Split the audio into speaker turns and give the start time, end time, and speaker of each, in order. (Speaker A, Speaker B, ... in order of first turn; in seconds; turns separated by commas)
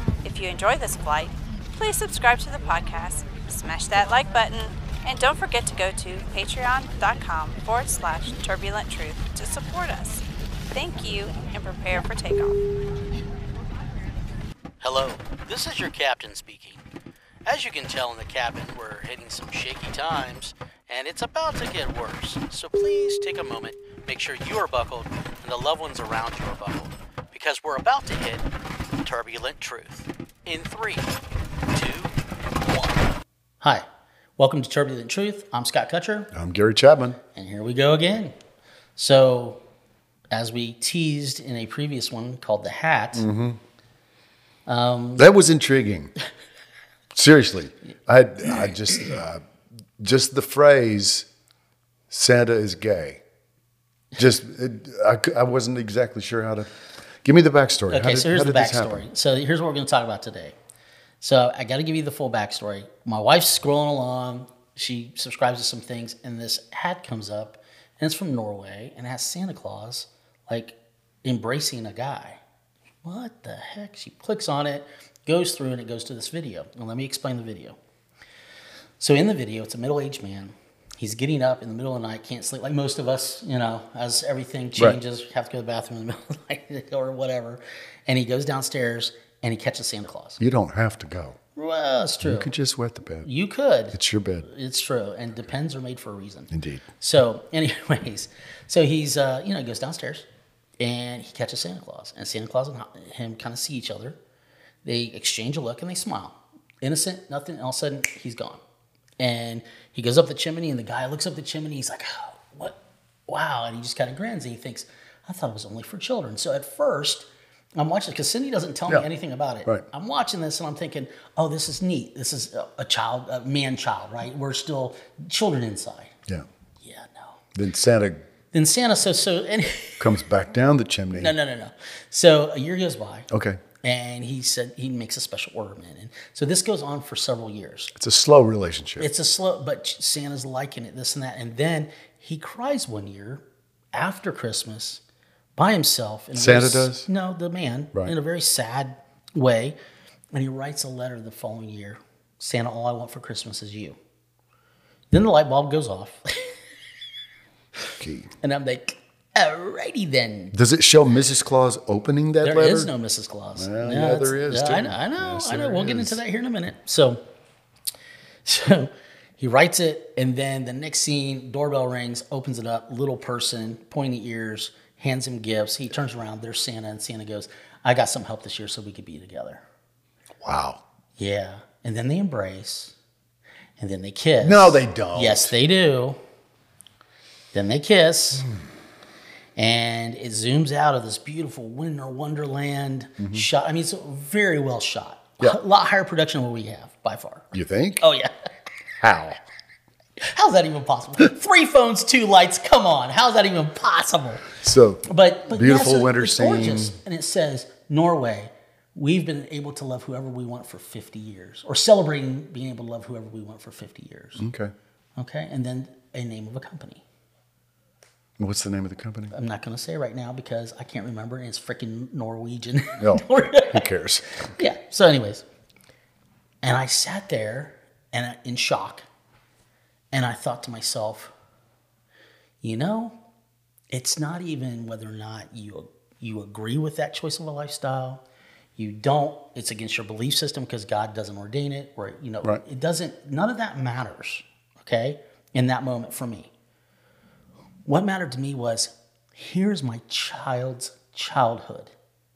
Speaker A: 0.2-12.6, Speaker B: 14.8-16.8, Speaker B: 17.4-28.5, Speaker B: 29.0-31.2, Speaker B: 31.7-33.1, Speaker B: 33.6-33.9, Speaker B: 34.4-36.3, Speaker C: 36.3-37.2, Speaker B: 37.3-38.4, Speaker B: 39.0-39.6, Speaker B: 40.3-43.3, Speaker C: 43.1-43.6, Speaker B: 44.6-45.3, Speaker C: 45.2-46.1, Speaker C: 47.1-49.4, Speaker C: 50.0-51.3, Speaker C: 52.1-53.2, Speaker C: 54.1-59.0, Speaker B: 57.9-60.5, Speaker B: 61.2-72.4, Speaker B: 73.0-77.8, Speaker B: 79.0-90.4, Speaker C: 90.4-91.4, Speaker B: 91.5-92.5, Speaker C: 92.2-93.3, Speaker B: 93.2-100.3, Speaker C: 93.9-94.5, Speaker C: 96.5-96.8, Speaker B: 100.8-104.2, Speaker B: 104.8-108.6, Speaker B: 109.2-126.1, Speaker B: 126.8-127.4, Speaker C: 127.5-128.2, Speaker B: 128.5-130.1, Speaker C: 130.0-131.3, Speaker B: 131.1-133.3, Speaker C: 133.3-133.6, Speaker B: 133.8-137.9, Speaker C: 137.9-139.1, Speaker B: 139.0-143.4, Speaker B: 143.9-145.0, Speaker B: 145.6-149.8, Speaker C: 146.3-147.1, Speaker B: 150.3-154.0, Speaker B: 155.1-156.6, Speaker C: 158.0-158.3, Speaker B: 158.4-160.6, Speaker C: 160.5-162.9, Speaker B: 162.4-167.2, Speaker C: 163.6-166.2, Speaker B: 168.4-179.6, Speaker C: 180.4-180.8, Speaker B: 181.2-182.9, Speaker B: 183.8-186.2, Speaker C: 184.4-185.5, Speaker B: 187.5-188.5, Speaker B: 189.6-198.3, Speaker C: 193.2-193.4, Speaker C: 197.5-198.0, Speaker C: 199.0-199.4, Speaker B: 200.3-204.5, Speaker C: 204.5-206.9, Speaker B: 205.0-214.4, Speaker C: 214.4-214.7, Speaker B: 215.2-217.0, Speaker C: 218.4-219.3, Speaker B: 219.3-223.9, Speaker C: 223.0-224.5, Speaker B: 224.5-225.4, Speaker B: 226.6-229.0, Speaker B: 230.1-231.3, Speaker B: 232.6-233.2, Speaker B: 233.9-238.2, Speaker B: 238.8-246.5, Speaker B: 247.8-251.9